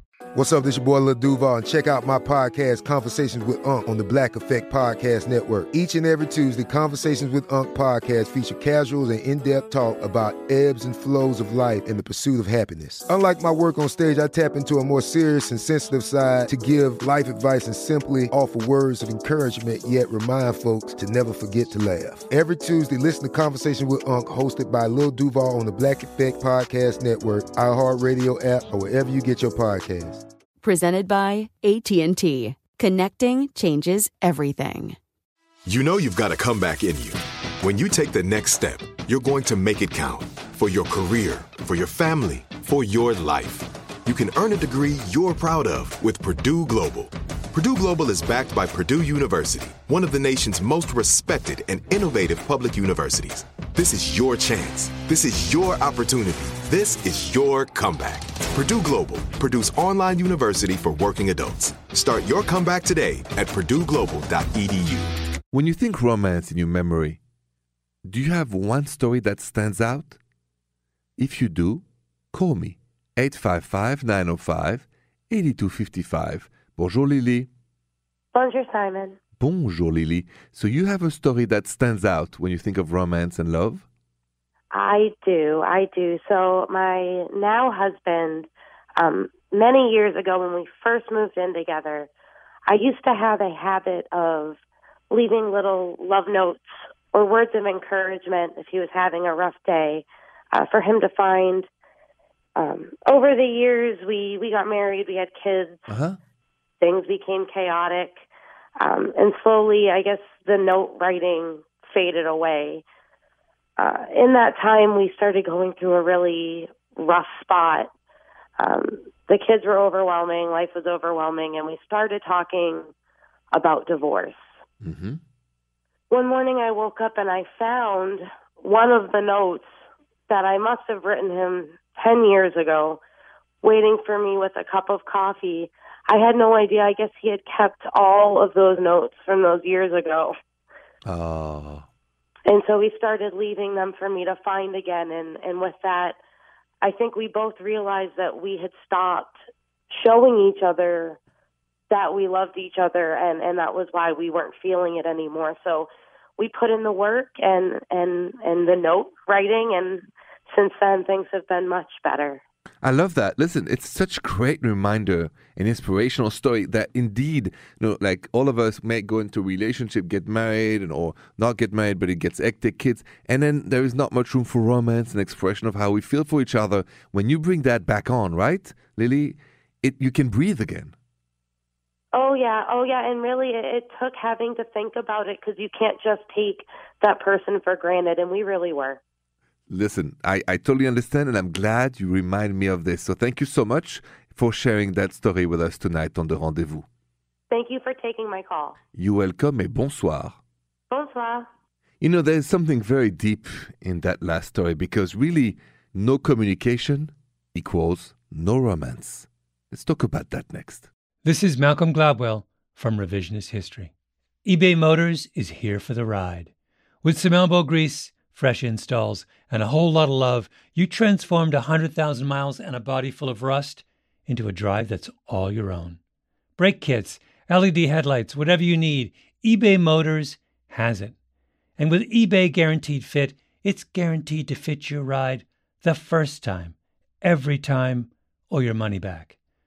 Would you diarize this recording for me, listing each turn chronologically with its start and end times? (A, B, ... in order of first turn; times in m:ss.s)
0:00.3-0:30.2 A
0:30.6-0:35.0 B
0:35.6-1:05.1 C
1:05.5-1:07.2 D
1:08.0-1:10.2 D
1:11.2-1:17.5 D
1:18.3-1:19.2 E
1:19.4-1:23.8 D
1:24.7-1:32.1 E
1:32.7-1:34.6 E
1:35.1-1:41.6 E
1:42.6-1:45.9 E
1:45.9-1:46.2 D
1:46.8-1:48.2 E
1:48.8-1:52.8 E
1:53.8-1:57.9 E
1:58.6-2:02.9 E
2:03.5-2:04.4 E
2:04.8-2:05.2 D
2:06.1-2:09.7 E
2:10.3-2:13.0 E
2:13.6-2:20.3 E
2:21.0-2:21.9 D
2:22.5-2:26.2 E
2:26.8-2:29.3 E
2:29.9-2:31.2 E
2:31.9-2:42.4 E
2:42.8-3:00.9 D
3:02.1-3:09.0 E
3:09.7-3:16.8 D
3:17.5-3:18.8 E
3:18.9-3:20.4 D
3:20.9-3:21.4 E
3:22.0-3:30.9 D
3:31.2-3:33.9 F
3:34.4-3:36.5 F
3:37.0-3:46.0 F
3:46.6-3:51.1 F
3:51.8-3:59.3 F